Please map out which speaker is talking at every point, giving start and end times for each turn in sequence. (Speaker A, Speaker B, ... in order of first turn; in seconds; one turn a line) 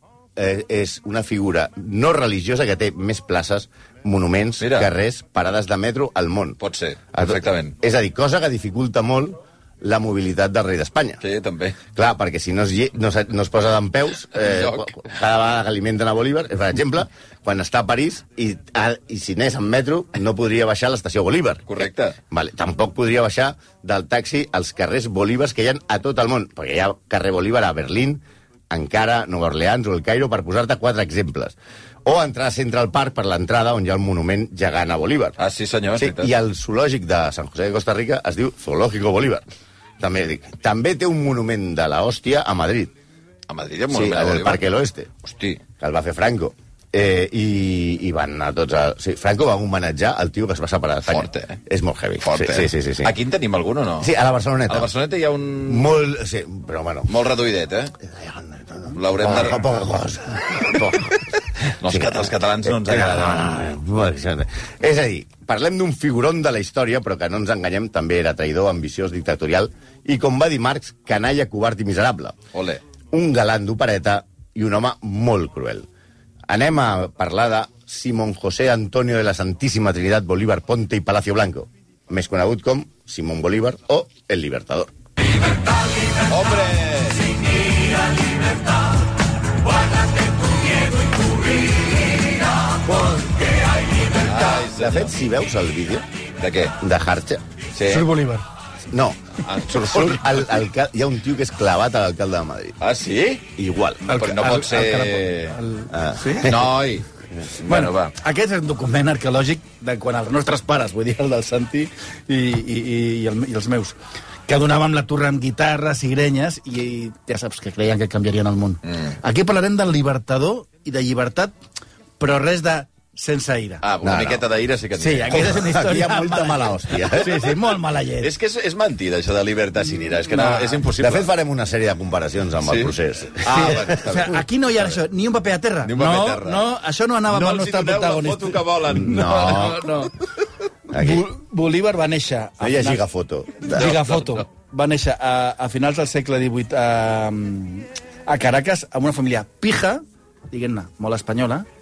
Speaker A: 0.4-6.6
Speaker B: 4.6-4.9
Speaker B: 6.6-7.8
Speaker A: 7.1-11.2
Speaker B: 11.2-11.8
Speaker A: 11.9-35.4
Speaker B: 14.3-14.9
Speaker B: 21.7-22.2
Speaker B: 35.4-36.3
Speaker A: 36.0-39.4
Speaker A: 40.0-42.9
Speaker B: 43.5-44.6
Speaker A: 43.9-45.1
Speaker B: 45.2-45.6
Speaker A: 45.8-53.1
Speaker B: 51.1-51.6
Speaker B: 52.2-54.1
Speaker A: 54.0-54.9
Speaker B: 54.7-55.9
Speaker A: 55.6-57.1
Speaker B: 57.1-57.9
Speaker A: 58.0-61.3
Speaker B: 58.9-59.7
Speaker B: 61.8-63.6
Speaker A: 61.8-72.4
Speaker B: 72.5-72.8
Speaker A: 73.1-75.9
Speaker A: 76.5-84.9
Speaker B: 86.2-87.5
Speaker B: 94.2-95.1
Speaker A: 94.6-96.1
Speaker B: 96.4-96.8
Speaker A: 96.8-97.4
Speaker B: 97.8-98.1
Speaker C: 97.8-98.5
Speaker A: 98.9-102.8
Speaker B: 99.4-100.5
Speaker B: 102.8-103.5
Speaker A: 103.6-104.2
Speaker C: 104.1-106.5
Speaker B: 104.1-105.6
Speaker A: 105.9-106.7
Speaker B: 106.4-107.1
Speaker B: 107.6-108.1
Speaker C: 107.7-121.5
Speaker C: 122.2-123.8
Speaker B: 123.8-125.6
Speaker A: 124.0-124.4
Speaker C: 125.0-128.3
Speaker A: 125.3-127.5
Speaker B: 128.2-131.3
Speaker C: 130.4-130.7
Speaker A: 131.0-133.9
Speaker B: 132.6-134.4
Speaker C: 133.4-140.1
Speaker B: 135.8-136.7
Speaker B: 137.3-139.9
Speaker A: 138.9-139.8
Speaker A: 140.9-141.2
Speaker C: 140.9-143.0
Speaker A: 142.6-143.9
Speaker C: 143.6-151.7
Speaker B: 143.8-144.4